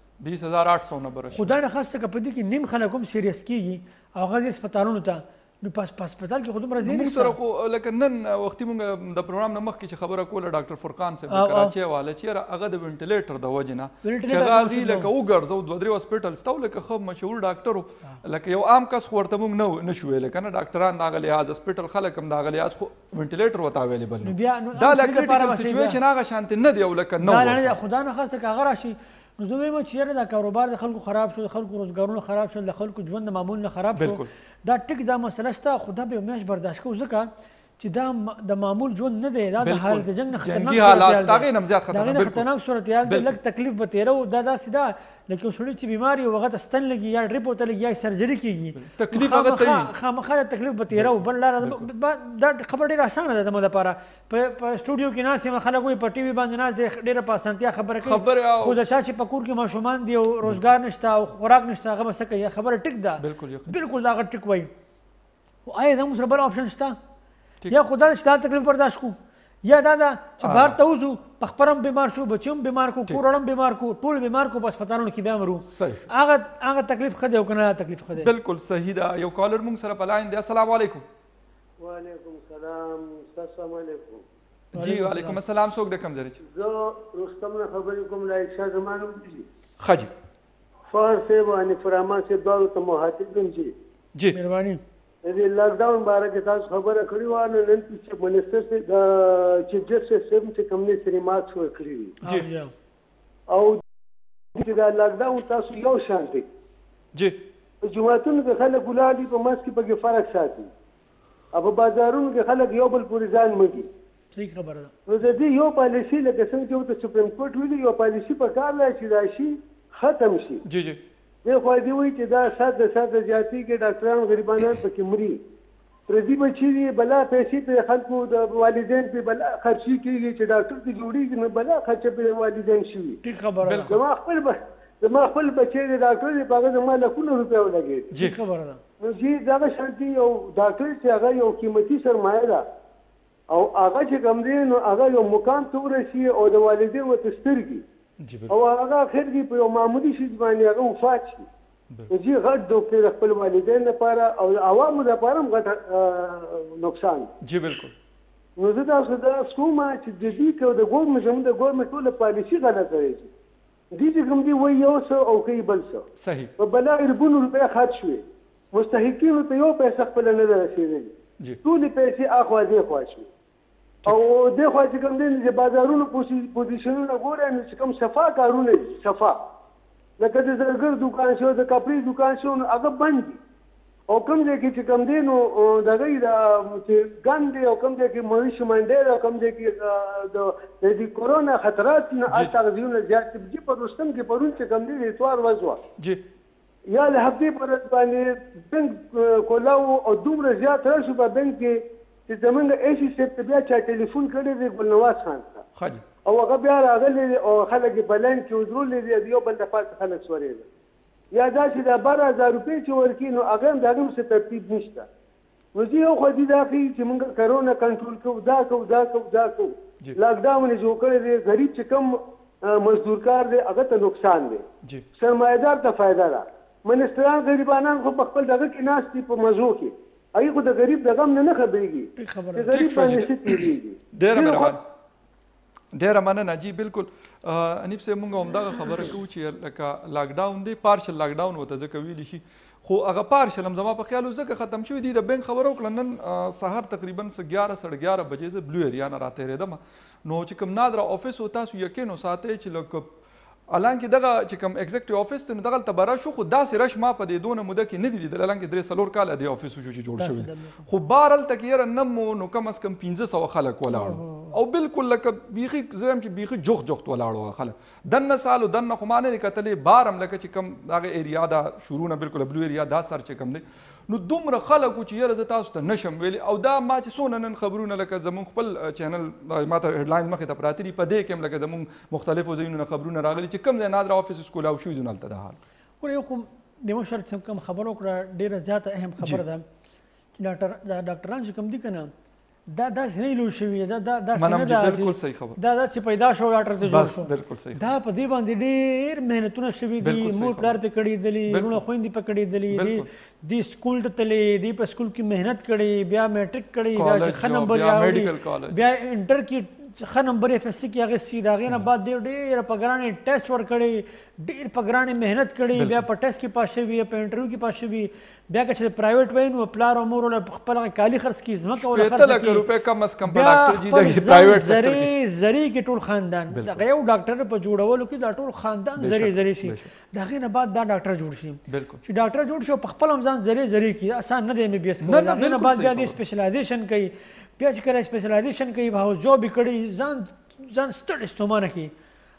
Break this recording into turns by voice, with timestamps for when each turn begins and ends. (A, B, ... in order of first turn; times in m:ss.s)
0:00.2-0:01.6 A
0:01.3-0:07.3 B
0:06.8-0:27.8 A
0:11.3-0:11.7 B
0:14.0-0:15.1 B
0:24.2-0:26.0 B
0:27.2-0:37.3 B
0:33.9-0:34.3 A
0:37.8-1:04.7 B
0:39.6-0:42.5 A
0:43.0-0:43.4 A
0:48.7-0:49.9 A
0:50.9-0:51.9 A
0:58.0-0:58.8 A
1:03.2-1:03.8 A
1:05.6-1:07.0 B
1:07.7-1:18.3 B
1:10.4-1:10.8 A
1:15.6-1:16.1 A
1:18.1-1:21.0 A
1:21.8-1:24.2 C
1:24.7-1:26.4 A
1:24.8-1:25.4 B
1:26.4-1:29.4 C
1:29.8-1:30.1 A
1:30.9-1:33.7 C
1:34.3-1:34.8 B
1:35.2-1:42.2 C
1:42.2-1:42.7 B
1:43.5-1:43.8 C
1:44.5-1:46.5 C
1:47.1-1:47.4 A
1:47.8-1:50.7 C
1:51.5-1:53.9 C
1:54.3-1:54.9 B
1:55.1-2:00.6 C
2:00.6-2:01.0 A
2:01.4-2:05.4 C
2:06.1-2:13.2 C
2:13.2-2:14.0 B
2:13.6-2:14.0 A
2:13.9-2:18.1 C
2:18.1-2:18.4 A
2:18.1-2:18.8 B
2:19.0-2:22.6 C
2:23.5-2:27.8 C
2:28.2-2:28.5 A
2:28.5-2:31.5 C
2:32.1-2:37.3 C
2:37.4-2:37.9 A
2:38.6-2:43.3 C
2:43.9-2:46.1 C
2:46.2-2:46.5 A
2:46.6-2:51.1 C
2:51.6-2:53.3 C
2:54.0-2:59.4 C
3:00.2-3:03.4 C
3:04.1-3:15.8 C
3:12.3-3:12.6 A
3:16.0-3:16.2 A
3:16.9-3:25.6 C
3:25.8-3:26.0 A
3:26.2-3:30.7 C
3:31.3-3:35.1 C
3:35.7-3:44.6 C
3:45.2-3:54.8 C
3:52.2-3:52.7 B
3:52.7-3:54.8 A
3:55.9-4:13.1 A
4:13.7-4:45.6 A
4:20.2-4:20.8 B
4:23.9-4:24.5 B
4:46.0-4:49.6 B
4:50.4-4:52.1 B
4:52.7-5:22.6 B
4:54.3-4:55.6 A
4:56.8-4:57.9 A
5:00.0-5:00.8 A
5:01.5-5:01.8 A
5:02.7-5:03.0 A
5:06.9-5:08.8 A
5:15.7-5:16.0 A
5:21.8-5:25.1 A
5:23.2-5:41.9 B
5:26.5-5:26.8 A
5:29.0-5:29.9 A
5:31.7-5:32.0 A
5:35.0-5:36.2 A